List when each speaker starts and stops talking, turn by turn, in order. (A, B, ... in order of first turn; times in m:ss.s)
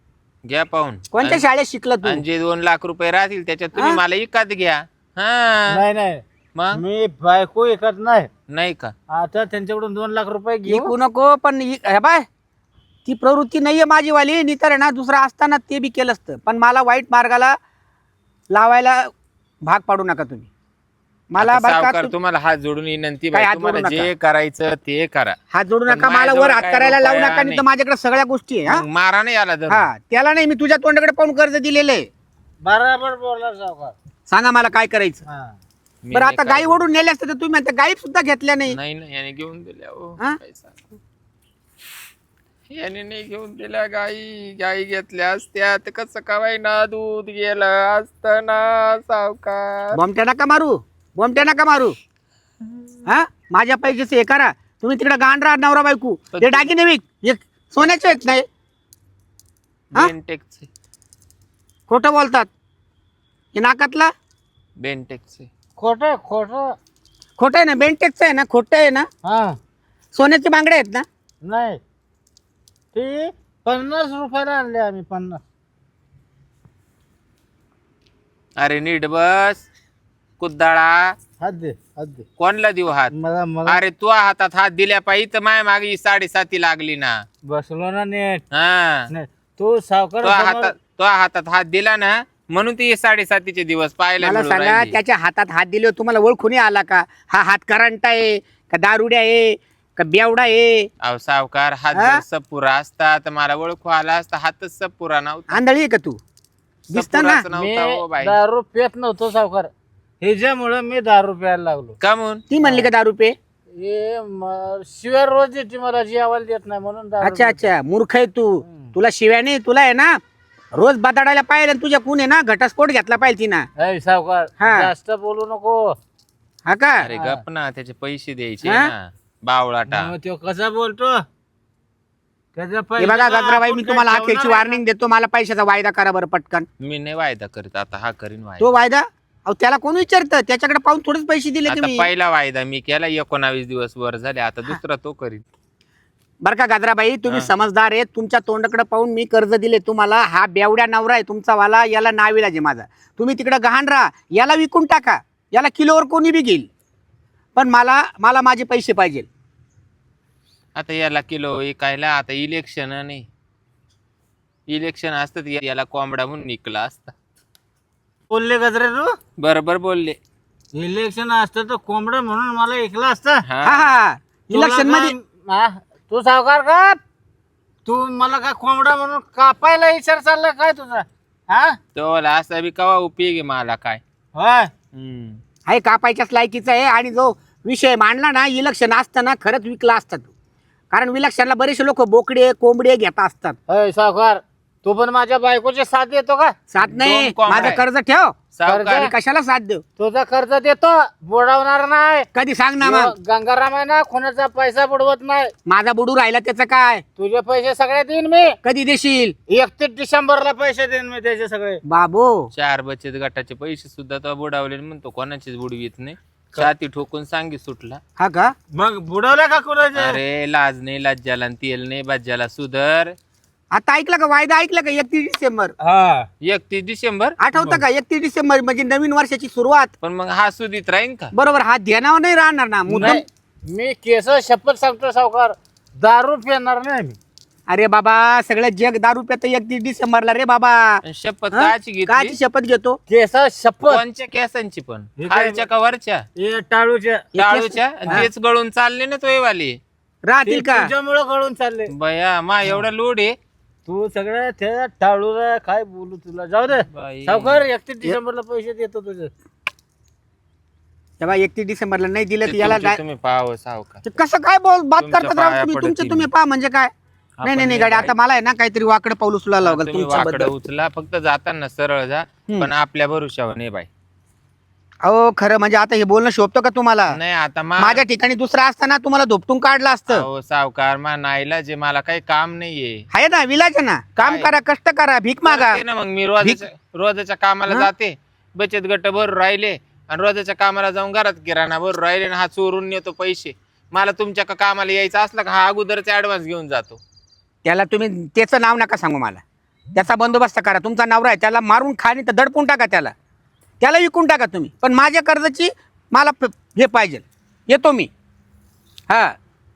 0:00.4-0:01.4 A
0:01.1-0:02.2 B
0:02.0-0:05.8 A
0:03.7-0:04.0 B
0:05.7-0:08.3 C
0:06.5-0:06.8 A
0:08.5-0:08.9 A
0:09.1-0:10.9 C
0:10.6-0:12.2 B
0:13.0-0:17.5 B
0:18.5-0:19.1 B
0:19.7-0:20.5 B
0:21.3-0:22.1 B
0:21.4-0:25.4 A
0:23.3-0:24.1 B
0:25.5-0:28.8 B
0:25.9-0:27.6 A
0:28.7-0:29.9 A
0:29.7-0:32.1 B
0:32.6-0:33.9 C
0:34.3-0:35.2 B
0:35.2-0:35.6 C
0:36.0-0:36.8 A
0:36.1-0:38.8 B
0:38.7-0:41.0 A
0:42.7-0:50.0 A
0:49.9-0:51.9 B
0:53.0-0:58.4 B
0:56.3-0:56.7 A
0:59.9-1:00.7 A
1:01.9-1:02.5 B
1:03.5-1:04.1 B
1:04.8-1:05.5 A
1:05.8-1:06.7 C
1:07.4-1:09.1 B
1:09.2-1:09.6 C
1:10.1-1:11.0 B
1:11.4-1:11.8 C
1:12.9-1:15.4 C
1:18.6-1:19.7 A
1:20.4-1:21.1 A
1:21.4-1:22.2 C
1:22.4-1:23.1 A
1:23.1-1:23.8 C
1:23.6-1:27.2 A
1:27.4-1:28.4 C
1:28.5-1:29.1 A
1:29.1-1:30.7 C
1:30.2-1:35.0 A
1:34.2-1:40.9 B
1:41.0-1:45.6 A
1:41.9-1:42.2 B
1:45.5-1:46.2 B
1:46.9-1:47.4 B
1:46.9-1:48.4 A
1:47.5-1:49.7 C
1:50.2-1:52.0 C
1:52.0-1:52.4 A
1:52.5-1:53.4 B
1:52.6-1:52.9 C
1:53.7-1:57.6 C
1:57.2-2:00.2 B
1:58.6-1:58.9 C
2:00.7-2:03.7 B
2:03.8-2:05.9 C
2:04.6-2:04.9 B
2:06.7-2:07.1 B
2:07.0-2:10.1 A
2:07.1-2:07.4 C
2:08.6-2:08.9 B
2:09.9-2:11.2 C
2:12.6-2:14.8 C
2:13.0-2:16.6 B
2:16.8-2:18.7 A
2:18.6-2:22.1 B
2:21.7-2:25.4 A
2:26.4-2:36.7 B
2:37.6-2:39.3 B
2:40.8-2:43.2 A
2:44.7-2:47.1 A
2:48.3-2:49.1 C
2:49.4-2:50.2 A
2:50.7-2:53.4 C
2:53.4-2:53.9 A
2:53.6-2:55.1 B
2:54.5-2:57.0 C
2:57.8-3:01.8 C
3:01.9-3:04.0 A
3:04.3-3:04.7 C
3:04.9-3:05.4 A
3:05.7-3:10.3 B
3:10.9-3:13.6 B
3:13.7-3:16.5 C
3:16.7-3:18.4 B
3:16.8-3:17.8 A
3:18.5-3:19.1 A
3:18.6-3:19.1 C
3:18.9-3:19.8 B
3:20.0-3:22.3 C
3:22.3-3:23.1 B
3:22.8-3:25.5 C
3:25.6-3:27.0 B
3:27.2-3:28.6 C
3:28.6-3:29.3 B
3:29.5-3:31.8 C
3:31.8-3:32.5 B
3:32.5-3:38.0 A
3:38.2-3:38.5 B
3:38.7-3:40.2 C
3:39.9-3:43.1 A
3:43.7-3:45.7 B
3:45.8-3:46.3 C
3:46.4-3:47.4 A
3:47.4-3:49.9 B
3:47.5-3:47.8 C
3:50.0-3:51.3 A
3:51.3-3:53.2 B
3:52.9-3:57.2 C
3:57.7-4:01.0 B
4:01.0-4:02.4 A
4:01.5-4:03.0 B
4:03.1-4:04.0 C
4:03.8-4:06.2 A
4:05.2-4:05.6 C
4:06.4-4:07.3 C
4:07.3-4:08.3 B
4:07.4-4:09.8 A
4:10.2-4:10.9 B
4:10.4-4:11.9 C
4:11.9-4:13.4 A
4:13.9-4:19.3 C
4:16.9-4:17.6 A
4:21.2-4:23.0 B
4:22.4-4:24.0 A
4:24.0-4:26.9 B
4:25.0-4:26.3 A
4:27.4-4:28.1 A
4:27.4-4:30.5 B
4:29.6-4:33.9 A
4:35.0-4:37.2 B
4:37.1-4:38.0 A
4:37.8-4:40.2 B
4:40.1-4:43.0 A
4:43.1-4:45.8 B
4:44.2-4:44.5 A
4:45.4-4:57.0 A
4:57.6-4:59.4 B
4:59.9-5:03.1 B
5:03.8-5:08.1 B
5:09.1-5:09.4 B